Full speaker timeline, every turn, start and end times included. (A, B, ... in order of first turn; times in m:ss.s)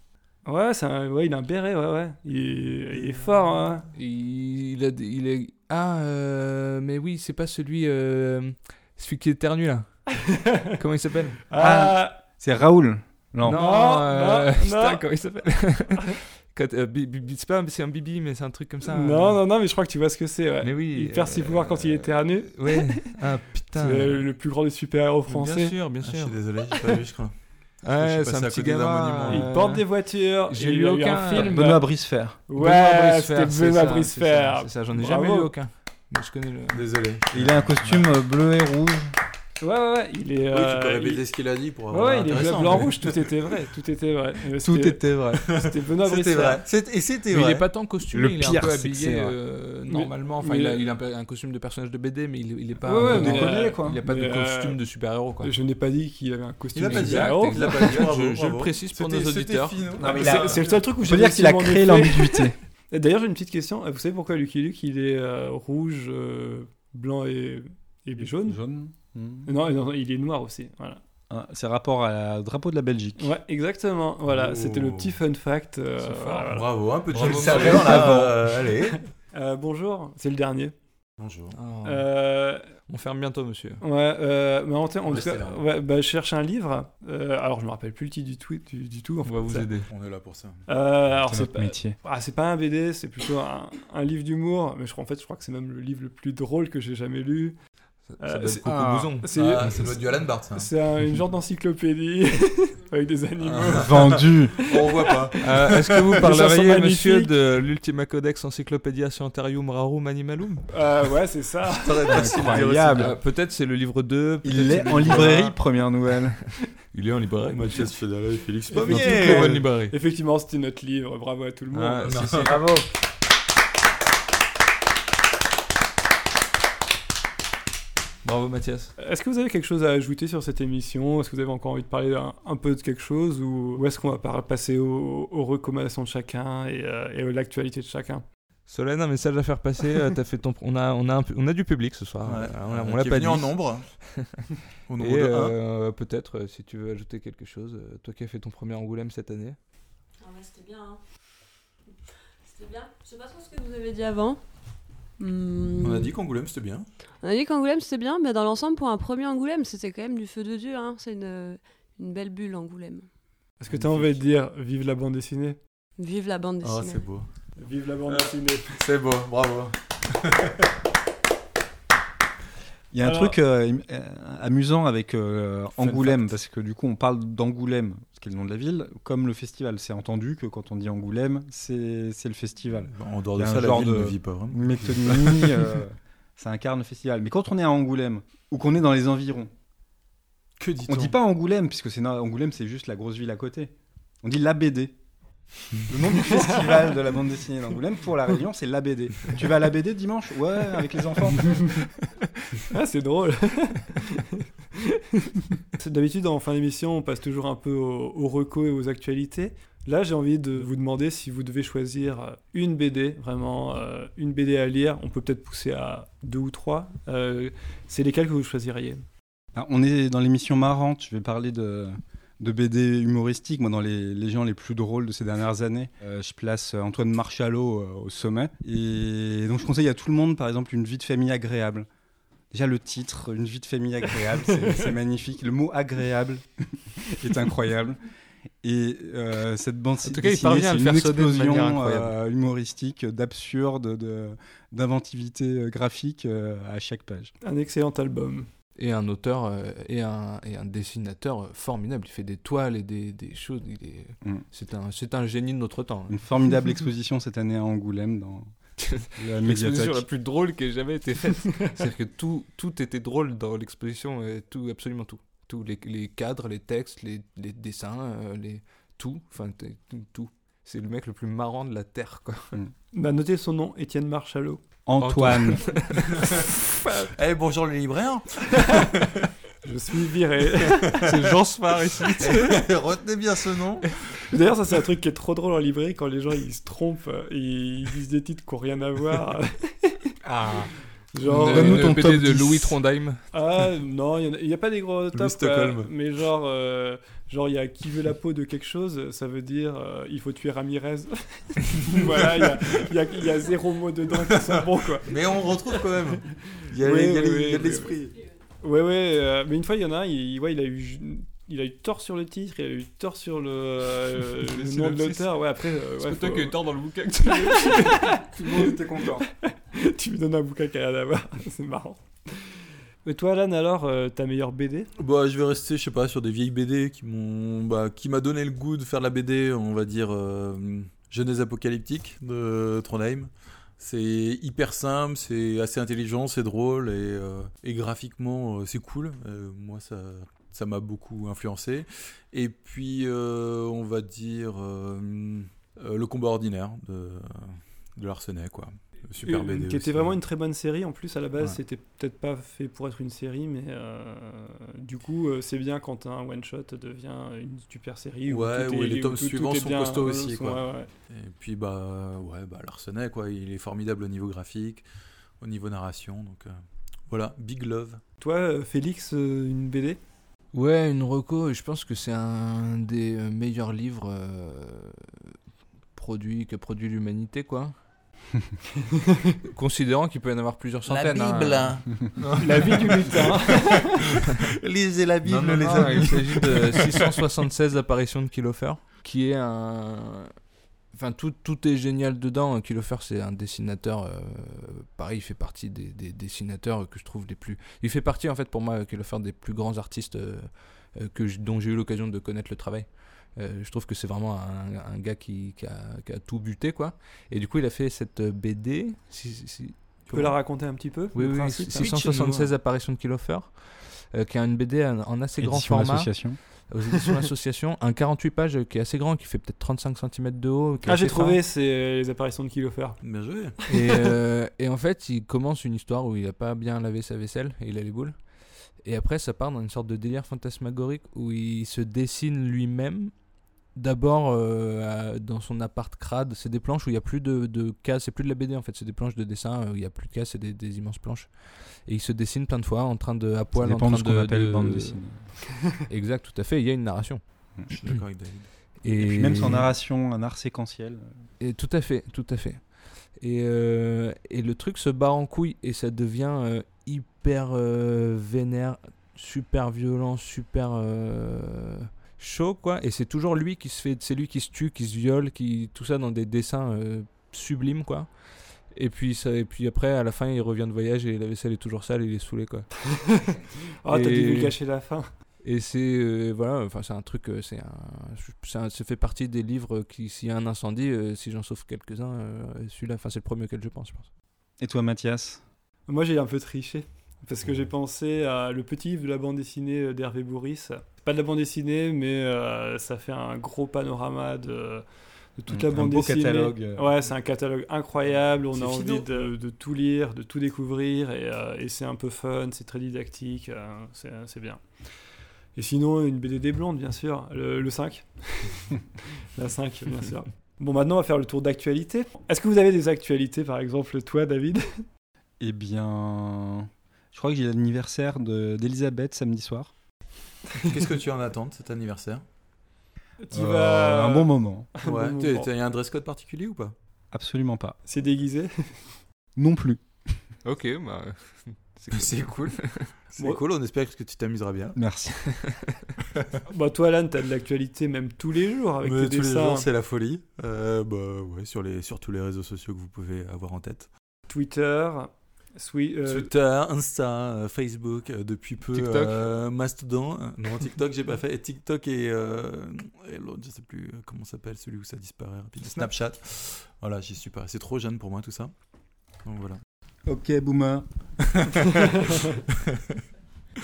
0:00.5-0:03.9 A
0:04.0-0:10.2 B
0:10.2-0:10.7 A
0:10.8-0:11.4 B
0:11.5-0:12.2 A
0:11.6-0:13.6 C
0:13.4-0:19.4 B
0:13.4-0:15.0 A
0:18.8-0:23.2 A
0:20.6-0:24.3 B
0:23.8-0:25.8 A
0:25.3-0:26.4 B
0:26.0-0:27.3 D
0:27.8-0:29.9 B
0:27.9-0:29.4 D
0:29.3-0:31.9 A
0:30.5-0:31.6 B
0:31.3-0:32.4 C
0:32.5-0:35.5 A
0:32.6-0:36.8 B
0:36.7-0:38.1 D
0:37.3-0:39.1 C
0:39.6-0:41.2 A
0:40.5-0:43.1 D
0:41.9-0:46.6 A
0:44.6-0:45.4 C
0:45.5-0:47.6 D
0:47.3-0:55.5 B
0:48.1-0:49.4 C
0:49.9-0:50.9 A
0:52.8-0:54.8 A
0:52.9-0:54.0 C
0:55.4-0:58.1 A
0:56.8-1:00.8 D
0:56.9-0:59.9 B
1:00.0-1:02.6 C
1:00.0-1:08.6 A
1:08.2-1:09.5 C
1:09.4-1:11.0 A
1:11.3-1:13.3 C
1:13.2-1:16.7 A
1:14.3-1:15.2 D
1:16.0-1:16.6 B
1:16.5-1:19.0 D
1:17.1-1:18.2 B
1:17.2-1:18.3 C
1:17.5-1:18.3 A
1:19.3-1:20.7 A
1:21.2-1:21.6 D
1:21.5-1:22.1 B
1:21.8-1:22.6 A
1:22.9-1:23.8 B
1:23.8-1:29.7 A
1:25.1-1:25.6 D
1:29.3-1:29.9 B
1:29.9-1:30.6 D
1:30.7-1:37.6 A
1:31.3-1:32.0 C
1:38.1-1:39.3 B
1:38.2-1:40.0 A
1:38.6-1:39.1 C
1:39.3-1:40.7 D
1:40.5-1:47.3 A
1:43.6-1:45.4 D
1:43.7-1:44.6 C
1:45.4-1:50.7 B
1:50.7-1:52.6 A
1:51.7-1:53.2 D
1:52.1-1:53.2 C
1:52.9-1:55.5 B
1:54.4-1:56.4 C
1:55.0-1:55.5 D
1:56.9-1:57.9 B
1:57.5-1:59.5 D
1:58.7-2:02.2 A
1:58.8-2:00.0 B
1:59.1-1:59.5 C
2:01.7-2:02.8 B
2:02.0-2:02.6 D
2:08.2-2:08.9 B
2:09.0-2:18.2 A
2:18.7-2:24.4 B
2:22.2-2:23.9 D
2:24.9-2:25.6 D
2:25.0-2:29.6 B
2:30.2-2:31.0 E
2:32.4-2:34.4 E
2:35.2-2:36.1 E
2:35.8-2:36.9 D
2:37.2-2:43.1 E
2:43.6-2:45.6 A
2:43.7-2:44.2 D
2:46.0-2:47.1 E
2:46.6-2:47.3 D
2:47.6-2:48.8 A
2:48.1-2:50.7 D
2:52.9-3:09.5 C
2:53.0-2:53.4 A
2:55.8-2:56.3 D
3:02.9-3:05.8 D
3:10.6-3:11.2 D
3:10.9-3:13.7 C
3:14.2-3:14.9 C
3:15.9-3:21.8 C
3:16.1-3:16.9 A
3:21.4-3:21.8 A
3:22.6-3:39.0 A
3:39.5-3:51.9 C
3:52.5-3:58.0 C
3:58.6-4:07.3 C
4:00.0-4:02.1 B
4:07.4-4:08.5 A
4:08.8-4:16.2 B
4:16.1-4:18.5 C
4:18.8-4:32.6 B
4:19.2-4:20.0 C
4:32.9-4:34.6 A
4:34.9-4:35.7 C
4:35.0-4:36.2 B
4:36.0-4:39.3 D
4:38.5-4:38.9 A
4:39.6-4:41.1 A
4:40.9-4:41.3 D
4:41.0-4:42.6 B
4:42.2-4:44.0 D
4:44.3-4:50.0 A
4:50.2-4:50.7 C
4:51.1-4:52.0 A
4:51.3-4:52.8 C
4:51.3-4:53.2 B
4:53.3-5:05.9 A
4:55.1-4:55.9 D
5:01.9-5:02.9 D
5:04.3-5:08.2 D
5:06.6-5:07.9 A
5:08.6-5:16.6 A
5:14.5-5:15.3 B
5:16.0-5:18.1 B
5:17.3-5:18.7 A
5:18.2-5:19.3 C
5:19.3-5:24.9 A
5:25.0-5:50.1 D
5:49.2-6:00.9 A
5:58.3-6:04.8 D
6:05.4-6:06.6 D
6:07.1-6:08.0 D
6:08.2-6:10.0 A
6:10.5-6:15.3 B
6:16.0-6:17.7 B
6:18.8-6:19.4 A
6:19.5-6:22.7 B
6:20.9-6:21.8 D
6:22.4-6:24.2 A
6:24.2-6:27.2 D
6:25.2-6:30.4 B
6:30.9-6:50.3 B
6:50.1-6:52.4 A
6:51.2-7:01.4 B
6:51.8-6:52.5 D
6:55.4-6:56.4 C
7:00.8-7:03.0 A
7:03.0-7:03.6 D
7:03.6-7:04.1 A
7:03.7-7:13.1 B
7:13.7-7:25.0 B
7:23.6-7:25.3 C
7:25.8-7:27.2 B
7:27.7-7:28.5 D
7:28.8-7:29.7 B
7:28.9-7:31.1 C
7:31.4-7:52.8 B
7:52.9-7:55.0 A
7:53.9-7:54.6 B
7:55.4-8:04.1 B
8:04.6-8:05.4 C
8:05.9-8:14.8 A
8:15.4-8:24.6 A
8:15.5-8:16.9 C
8:18.5-8:19.3 D
8:25.6-8:28.8 A
8:29.4-8:34.8 A
8:35.4-8:39.7 C
8:40.6-8:42.2 D
8:43.2-8:45.5 A
8:43.3-8:44.7 C
8:44.8-8:46.8 D
8:47.1-8:47.8 C
8:47.9-8:48.9 A
8:49.4-8:49.8 C
8:50.4-8:52.9 B
8:51.9-8:52.6 D
8:53.1-8:54.8 D
8:54.8-8:55.4 C
8:55.4-8:55.7 B
8:56.5-8:59.7 A
8:58.8-9:03.9 D
9:04.3-9:06.3 A
9:06.1-9:18.5 D
9:08.7-9:09.2 B
9:15.6-9:15.9 B
9:19.2-9:19.6 D
9:20.1-9:20.9 C
9:21.3-9:22.8 D
9:21.7-9:22.4 A